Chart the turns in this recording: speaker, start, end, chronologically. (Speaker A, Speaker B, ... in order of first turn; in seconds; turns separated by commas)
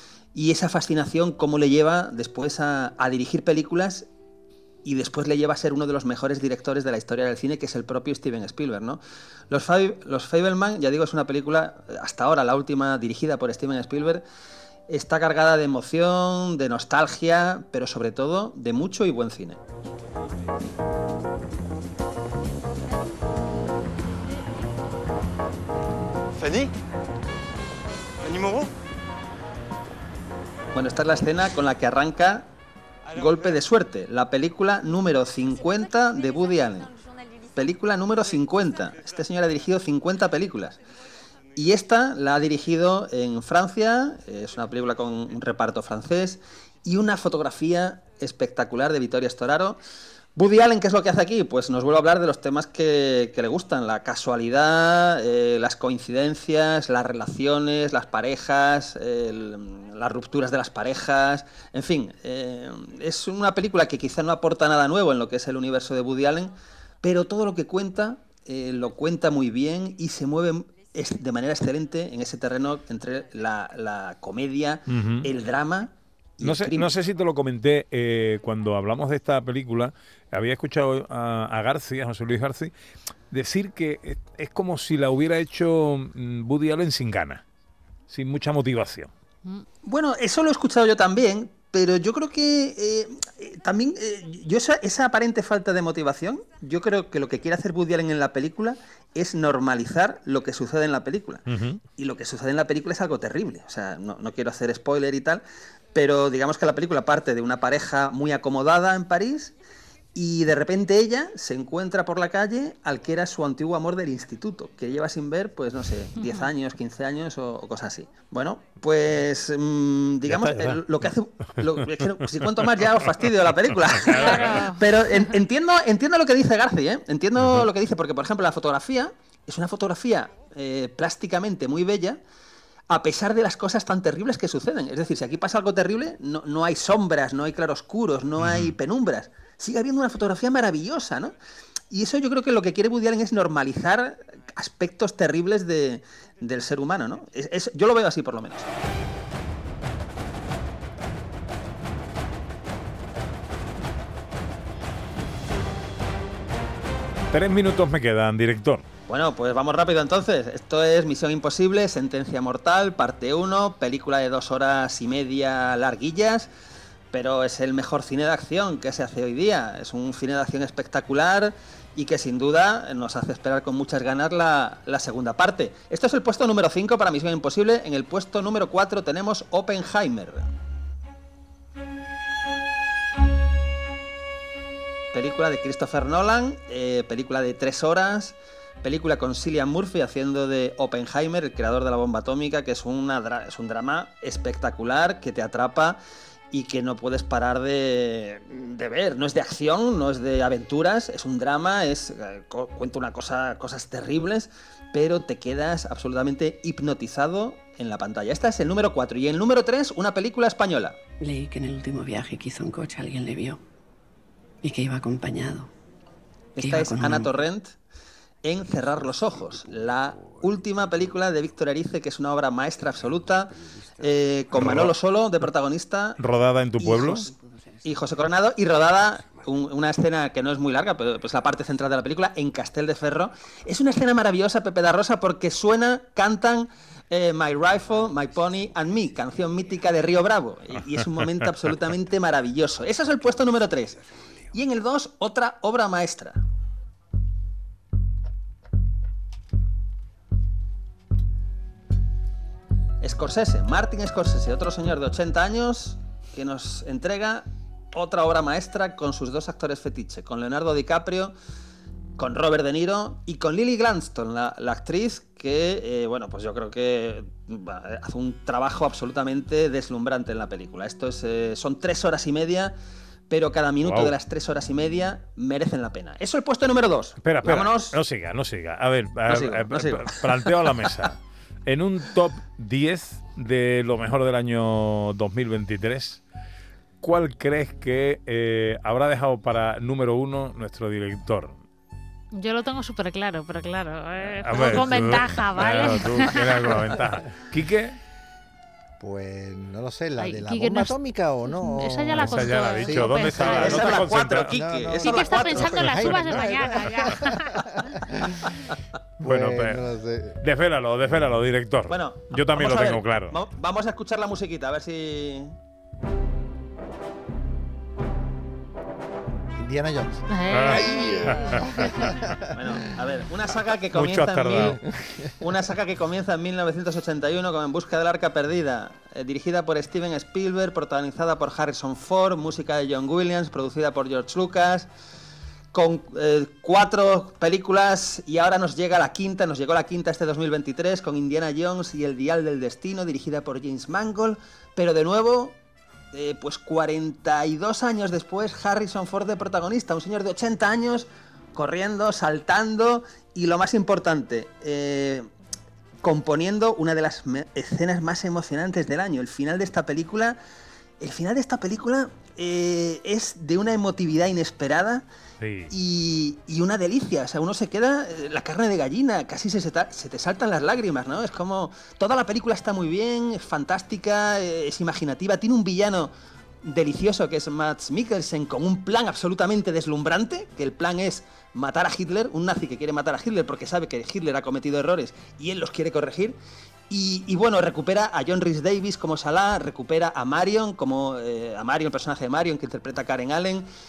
Speaker A: 0.3-4.1, Speaker A: 4.8-14.2, Speaker A: 14.9-19.6, Speaker A: 30.7-32.5, Speaker A: 33.1-36.9, Speaker A: 37.5-40.8, Speaker A: 41.5-49.8, Speaker A: 50.4-76.9, Speaker B: 74.9-75.3, Speaker B: 76.4-82.7, Speaker B: 83.3-87.4, Speaker B: 88.1-89.1, Speaker A: 89.8-105.4, Speaker B: 101.5-101.8, Speaker A: 105.9-109.5, Speaker A: 110.1-132.2, Speaker B: 120.2-120.8, Speaker C: 124.1-125.1, Speaker B: 124.1-124.4, Speaker B: 127.4-127.7, Speaker A: 132.9-141.3, Speaker B: 138.4-138.7, Speaker A: 141.9-148.7, Speaker B: 157.3-158.8, Speaker A: 159.1-166.5, Speaker A: 167.1-180.5, Speaker A: 185.1-196.0, Speaker A: 196.5-211.0, Speaker D: 211.2-213.6, Speaker D: 214.6-215.7, Speaker D: 216.6-217.4, Speaker A: 216.6-217.7, Speaker A: 218.4-226.2, Speaker B: 224.5-224.9, Speaker B: 226.2-227.3, Speaker A: 226.8-227.3, Speaker A: 227.8-246.4, Speaker A: 253.0-261.3, Speaker A: 262.2-272.7, Speaker A: 273.3-278.0, Speaker B: 273.8-274.1, Speaker B: 277.2-286.2, Speaker A: 279.3-280.9, Speaker B: 287.0-291.6, Speaker C: 292.3-296.7, Speaker B: 294.2-298.0, Speaker E: 299.0-308.5, Speaker C: 300.2-303.9, Speaker B: 302.1-304.6, Speaker A: 303.5-306.0, Speaker C: 305.0-307.5, Speaker B: 309.2-309.8, Speaker E: 309.2-310.4, Speaker B: 310.4-313.3, Speaker A: 311.9-315.5, Speaker E: 319.6-322.8, Speaker C: 320.3-322.2, Speaker B: 320.5-321.7, Speaker A: 322.5-324.8, Speaker B: 323.9-324.8, Speaker A: 325.4-334.9, Speaker A: 335.7-345.6, Speaker A: 346.1-355.3, Speaker A: 356.0-360.4, Speaker A: 361.0-365.1, Speaker B: 365.4-365.7, Speaker A: 365.7-376.1, Speaker A: 376.6-386.4, Speaker A: 386.9-393.6